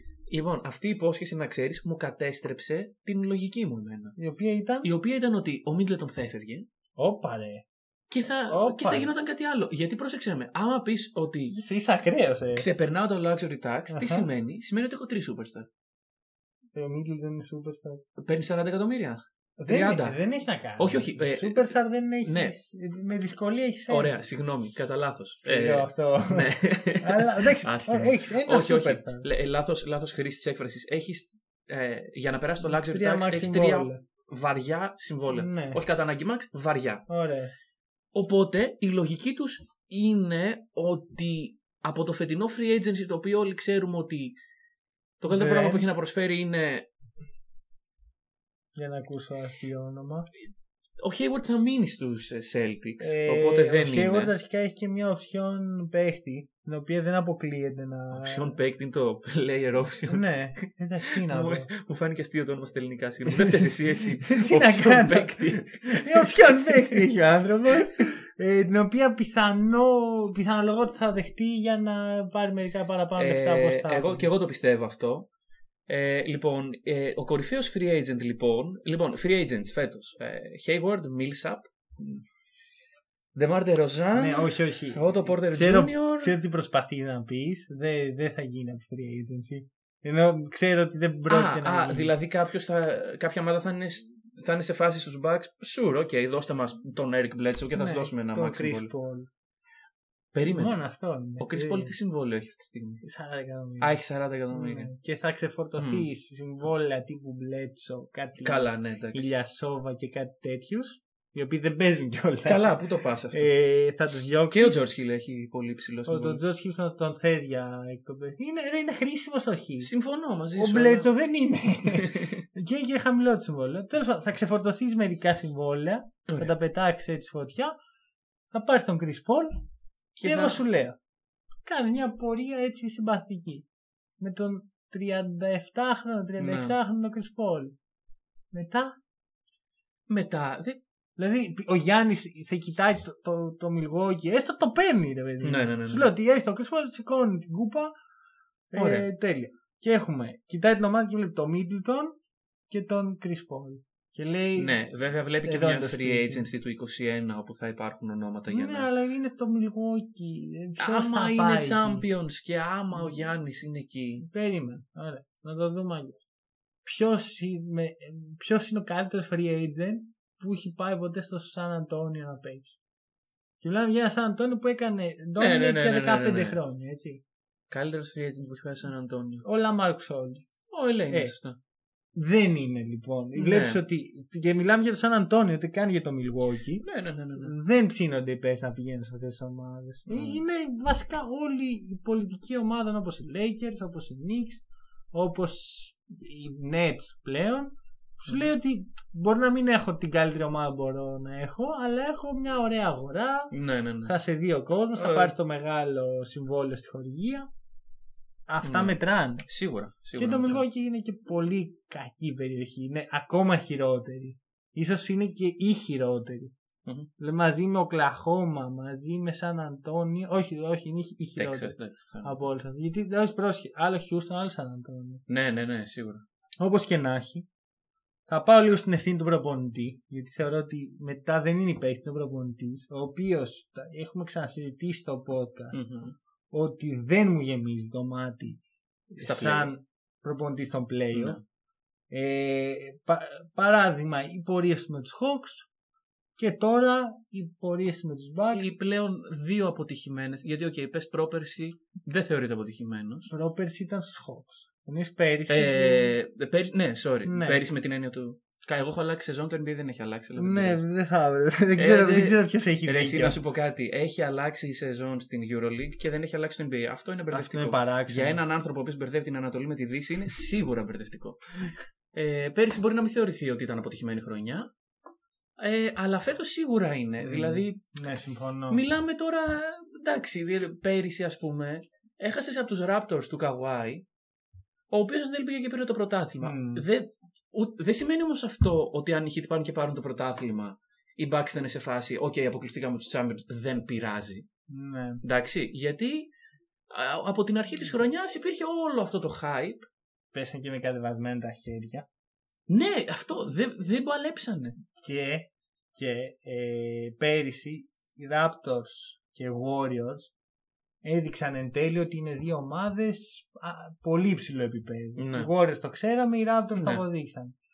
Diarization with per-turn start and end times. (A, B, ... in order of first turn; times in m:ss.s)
0:00.3-0:04.2 A
0:04.2-0:04.9 B
0:04.8-0:06.7 A
0:07.0-0:07.6 B
0:08.1-0:11.6 A
0:08.5-0:09.1 B
0:11.5-0:12.7 B
0:12.6-0:15.7 A
0:13.9-0:14.3 B
0:16.7-0:18.0 B
0:18.2-0:20.2 A
0:19.6-0:24.1 B
0:20.8-0:22.6 A
0:23.9-0:37.0 A
0:25.4-0:29.3 B
0:32.6-0:34.0 B
0:35.3-0:35.8 B
0:37.1-0:37.5 B
0:38.1-0:44.4 A
0:45.2-0:46.9 A
0:45.3-0:45.8 B
0:48.8-0:50.3 B
0:51.0-0:54.3 A
0:53.0-0:58.6 B
0:58.1-1:00.3 A
1:00.1-1:01.7 B
1:01.2-1:07.1 A
1:03.3-1:14.3 B
1:07.7-1:08.0 A
1:13.2-1:15.3 A
1:15.9-1:22.1 A
1:23.4-1:26.4 A
1:24.2-1:32.1 B
1:31.3-1:38.9 A
1:37.7-1:39.3 B
1:40.3-1:40.8 A
1:40.5-1:41.9 B
1:41.4-1:43.0 A
1:43.0-1:44.0 B
1:43.8-1:44.9 A
1:44.5-1:52.8 B
1:45.8-1:46.1 A
1:48.4-1:49.3 A
1:52.4-1:53.5 A
1:53.3-1:54.8 B
1:54.5-1:56.4 A
1:56.1-1:59.9 B
1:59.8-2:01.1 A
2:00.6-2:07.7 B
2:01.9-2:02.4 A
2:06.3-2:06.5 A
2:08.5-2:09.5 B
2:10.2-2:10.6 A
2:10.2-2:11.0 B
2:11.6-2:13.6 B
2:14.2-2:17.7 B
2:16.4-2:16.8 A
2:18.5-2:18.9 B
2:20.1-2:20.8 A
2:21.2-2:27.9 B
2:25.4-2:26.1 A
2:28.7-2:32.1 B
2:28.8-2:29.1 A
2:32.7-2:34.8 B
2:34.6-2:38.9 A
2:35.4-2:36.5 B
2:38.5-2:42.0 B
2:40.8-2:44.3 A
2:43.0-2:43.2 B
2:44.3-2:46.2 B
2:46.8-2:52.8 B
2:53.6-2:57.2 B
2:55.4-2:56.6 A
2:57.7-2:59.4 A
2:59.4-3:00.5 B
3:00.7-3:01.6 A
3:02.2-3:06.8 B
3:03.4-3:03.8 A
3:06.8-3:07.5 A
3:07.4-3:23.5 B
3:10.1-3:10.4 A
3:23.5-3:24.2 A
3:24.0-3:27.5 B
3:24.9-3:25.3 A
3:28.5-3:29.5 B
3:28.6-3:30.6 A
3:30.2-3:36.5 B
3:37.2-3:45.2 B
3:41.4-3:42.4 A
3:45.3-3:46.2 A
3:46.6-3:47.5 B
3:48.3-3:55.8 B
3:55.7-3:56.2 A
3:56.5-4:01.4 B
3:59.2-3:59.7 A
4:01.1-4:01.4 A
4:02.1-4:05.7 B
4:06.4-4:08.7 B
4:08.5-4:13.3 A
4:13.3-4:16.2 B
4:15.5-4:20.8 A
4:17.2-4:17.7 B
4:20.4-4:23.4 B
4:21.8-4:34.7 A
4:27.3-4:28.4 B
4:35.6-4:37.8 A
4:37.2-4:38.8 B
4:38.7-4:44.0 A
4:44.9-4:54.5 A
4:46.4-4:46.9 B
4:54.7-4:55.2 B
4:55.2-4:56.3 A
4:56.9-4:59.9 A
5:00.3-5:02.1 B
5:02.7-5:04.8 A
5:05.0-5:10.3 B
5:11.0-5:17.6 B
5:15.2-5:15.5 A
5:16.8-5:17.0 A